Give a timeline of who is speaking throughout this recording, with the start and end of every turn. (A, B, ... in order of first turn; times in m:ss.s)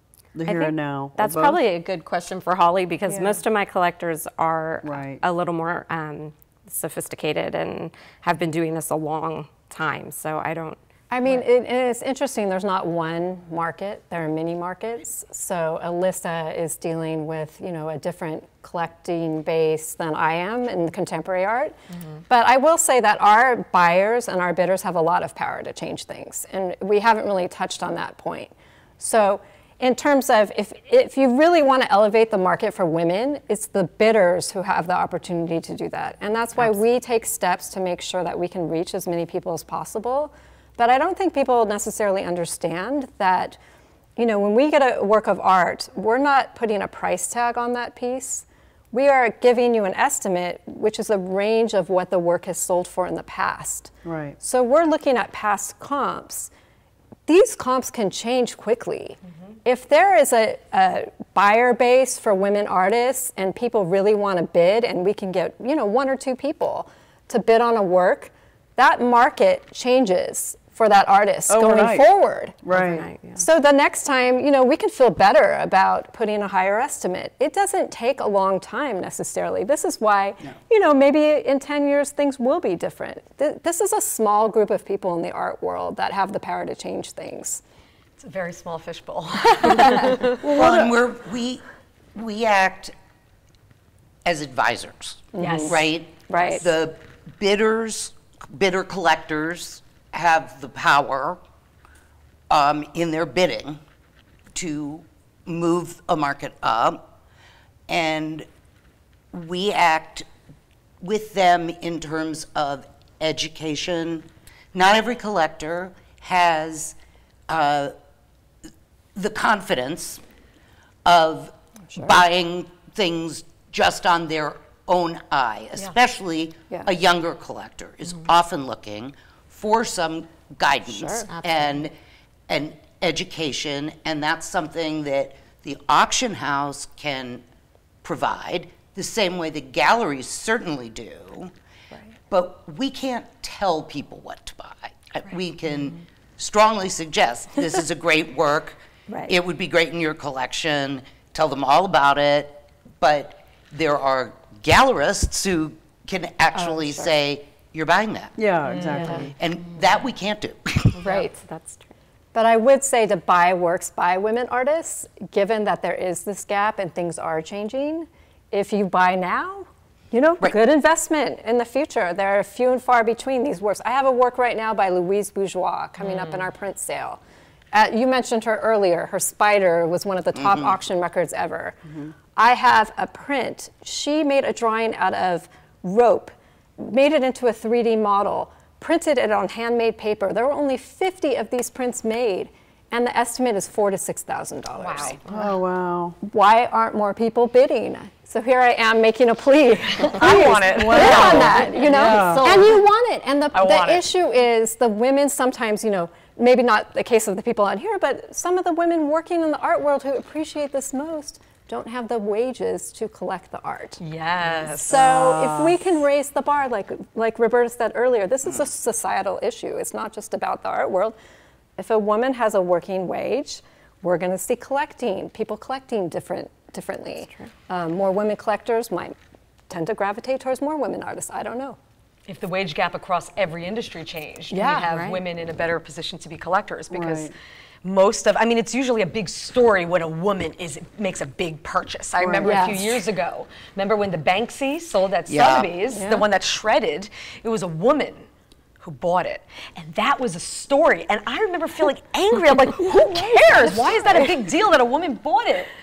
0:00.4-0:01.6 A
0:00.5-0:11.4 B
0:04.8-0:05.2 A
0:11.1-0:21.8 C
0:22.3-0:43.6 C
0:44.2-0:56.5 C
0:54.0-0:54.4 A
0:57.3-1:27.6 C
1:11.5-1:12.1 A
1:12.6-1:13.1 A
1:12.7-1:13.4 B
1:28.2-1:30.4 D
1:29.7-1:30.2 C
1:30.4-1:30.9 A
1:30.4-1:31.6 E
1:32.2-1:32.9 E
1:34.2-1:41.4 E
1:35.4-1:36.6 C
1:35.4-1:35.8 D
1:42.5-1:43.8 E
1:44.5-1:47.0 E
1:47.9-1:48.5 E
1:49.3-1:50.3 E
1:51.0-1:57.0 E
1:57.5-1:57.9 E
1:59.2-2:00.2 E
2:01.0-2:12.0 E
2:01.9-2:02.2 C
2:10.9-2:11.3 C
2:11.3-2:11.8 B
2:12.5-2:17.4 E
2:18.0-2:21.5 E
2:22.3-2:38.4 E
2:36.5-2:37.1 C
2:38.4-2:39.3 A
2:38.7-2:39.1 D
2:39.0-2:39.3 C
2:39.3-2:41.0 E
2:40.9-2:41.9 B
2:42.3-2:57.2 C
2:56.0-2:56.4 D
2:57.7-3:01.8 C
3:00.3-3:00.8 E
3:02.4-3:15.2 C
3:14.8-3:15.5 B
3:15.3-3:16.2 A
3:16.2-3:34.0 C
3:19.9-3:22.3 D
3:20.2-3:22.7 A
3:23.5-3:24.1 D
3:34.0-3:35.2 D
3:34.8-3:41.2 C
3:34.9-3:35.8 A
3:41.8-3:49.2 C
3:47.2-3:47.5 B
3:49.7-3:51.8 C
3:52.3-4:08.3 D
3:54.5-3:54.9 C
3:54.7-3:55.2 B
3:56.9-3:57.4 A
4:02.2-4:02.6 A
4:02.4-4:03.0 C
4:05.3-4:05.7 E
4:05.9-4:06.2 C
4:08.8-4:15.7 D